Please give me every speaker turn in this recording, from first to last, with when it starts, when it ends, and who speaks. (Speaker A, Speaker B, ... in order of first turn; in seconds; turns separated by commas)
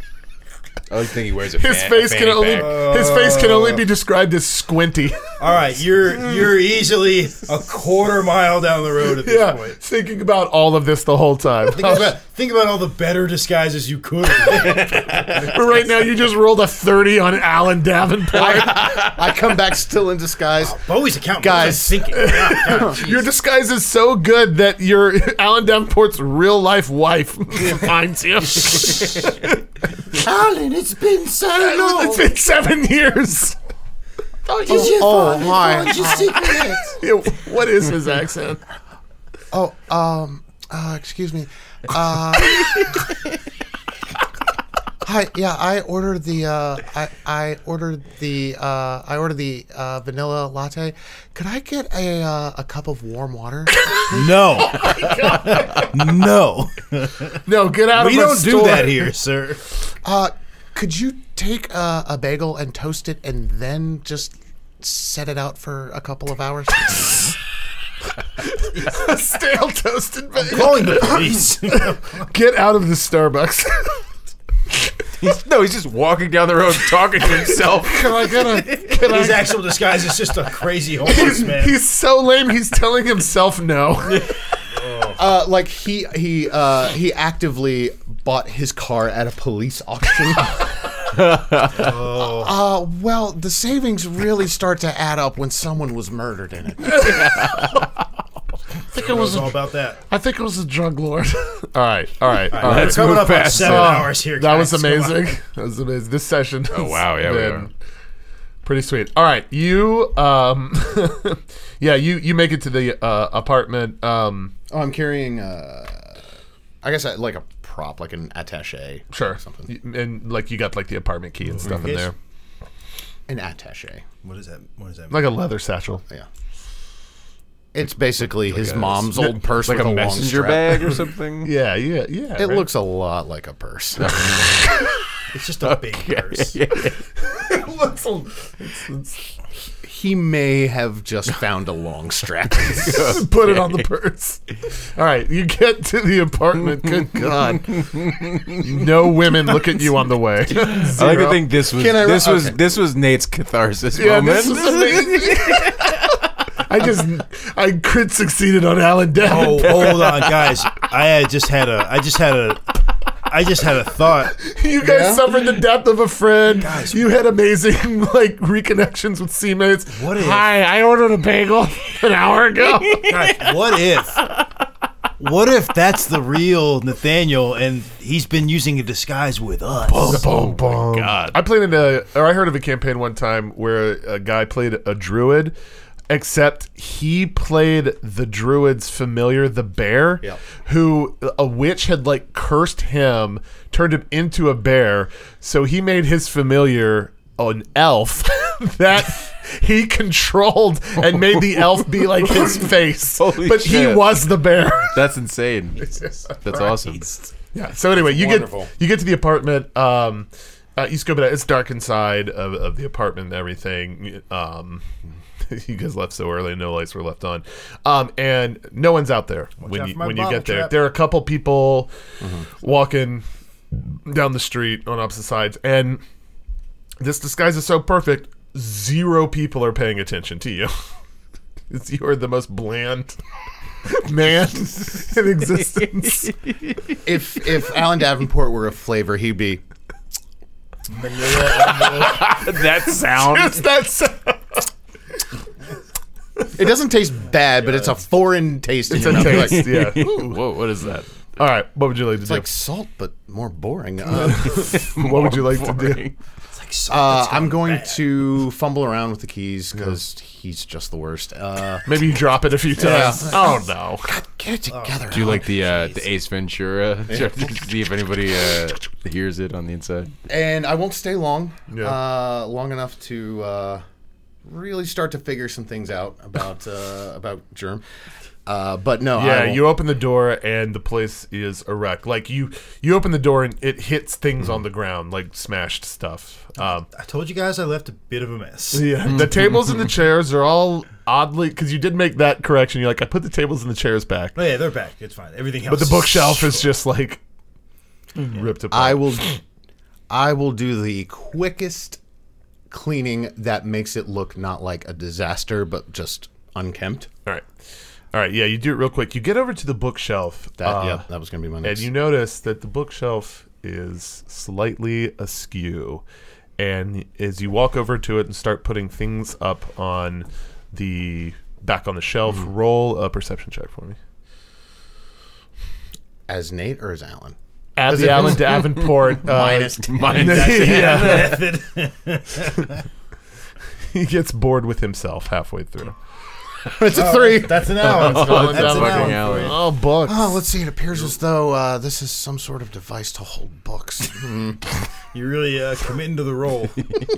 Speaker A: 0.9-2.8, Speaker B: 1.6-5.2, Speaker C: 2.5-3.9, Speaker C: 5.4-9.8, Speaker B: 9.2-12.2, Speaker C: 11.7-15.9, Speaker A: 14.8-15.3, Speaker B: 15.2-19.2, Speaker D: 18.3-23.0, Speaker C: 20.6-23.2, Speaker B: 22.1-29.6, Speaker C: 30.1-32.3, Speaker B: 31.5-33.6, Speaker B: 34.5-36.0, Speaker D: 34.6-36.9, Speaker C: 34.7-37.0, Speaker B: 37.0-38.6, Speaker D: 39.5-43.0, Speaker D: 45.0-55.0, Speaker B: 53.8-56.2, Speaker C: 54.1-54.9, Speaker C: 55.6-59.6, Speaker B: 57.4-59.1, Speaker D: 60.0-67.4, Speaker B: 68.4-74.0, Speaker C: 70.3-72.3, Speaker A: 75.2-78.8, Speaker B: 77.8-79.6, Speaker C: 78.9-81.8, Speaker B: 81.0-84.3, Speaker A: 84.1-84.3, Speaker C: 84.7-85.2, Speaker D: 85.1-90.6, Speaker A: 91.1-91.8, Speaker C: 91.7-92.5, Speaker D: 92.2-97.4, Speaker A: 97.1-97.5, Speaker C: 98.9-100.0, Speaker B: 98.9-107.7, Speaker C: 102.5-105.3, Speaker A: 102.6-104.1, Speaker A: 106.7-107.7, Speaker B: 108.6-114.5, Speaker D: 114.7-116.2, Speaker D: 116.8-119.7, Speaker B: 119.1-122.1, Speaker C: 121.5-122.1, Speaker D: 123.3-124.0, Speaker C: 124.2-125.3, Speaker B: 125.1-126.0, Speaker D: 127.7-130.9, Speaker B: 128.5-129.3, Speaker A: 128.6-131.5, Speaker B: 131.4-132.7, Speaker D: 132.4-134.5, Speaker A: 134.0-134.6, Speaker C: 135.3-136.6, Speaker A: 135.6-137.0, Speaker B: 137.2-139.3, Speaker D: 139.8-143.2, Speaker B: 142.7-151.5, Speaker A: 142.9-143.7, Speaker A: 148.1-148.6, Speaker A: 150.6-156.0, Speaker D: 151.7-152.6, Speaker B: 153.9-160.1, Speaker C: 159.2-164.4, Speaker B: 164.3-173.4, Speaker D: 164.8-165.2, Speaker C: 166.6-167.0, Speaker C: 169.9-170.5, Speaker C: 173.1-174.2, Speaker C: 175.2-180.3, Speaker B: 179.9-185.5, Speaker B: 186.1-205.0, Speaker A: 201.1-204.3, Speaker A: 204.9-207.1, Speaker B: 207.5-214.8, Speaker D: 207.9-208.7, Speaker B: 215.5-221.9, Speaker C: 219.6-220.8, Speaker D: 222.2-222.5, Speaker B: 222.5-226.0, Speaker B: 227.0-230.7, Speaker B: 231.7-233.2, Speaker B: 233.8-236.3, Speaker D: 237.0-239.6, Speaker C: 240.9-241.9, Speaker B: 241.3-244.7, Speaker A: 241.6-243.6, Speaker D: 246.5-249.8, Speaker B: 248.9-252.5, Speaker A: 249.0-251.1, Speaker D: 252.2-254.7, Speaker B: 254.2-256.1, Speaker A: 254.5-256.1, Speaker C: 256.5-258.1, Speaker D: 256.9-262.0, Speaker B: 261.9-264.1, Speaker D: 262.8-265.5, Speaker C: 264.7-266.0, Speaker A: 265.1-270.1, Speaker D: 267.1-267.5, Speaker D: 270.3-273.8, Speaker B: 271.7-272.0, Speaker D: 274.4-277.8, Speaker D: 278.4-279.6, Speaker B: 279.1-286.9, Speaker C: 286.9-289.0, Speaker B: 288.7-294.4, Speaker C: 294.4-296.7, Speaker B: 295.7-297.2, Speaker B: 298.2-299.2, Speaker D: 298.7-299.4, Speaker D: 300.1-302.0, Speaker D: 302.7-307.1, Speaker B: 308.1-311.0, Speaker D: 310.6-311.9, Speaker B: 311.6-316.0, Speaker B: 316.6-324.0, Speaker D: 326.3-330.3, Speaker B: 327.8-331.4, Speaker A: 329.8-331.4, Speaker C: 330.0-332.8, Speaker B: 333.9-335.9, Speaker D: 336.7-338.2, Speaker C: 336.9-339.6, Speaker B: 337.8-340.4, Speaker A: 337.9-339.6, Speaker D: 340.0-344.7, Speaker C: 345.1-347.0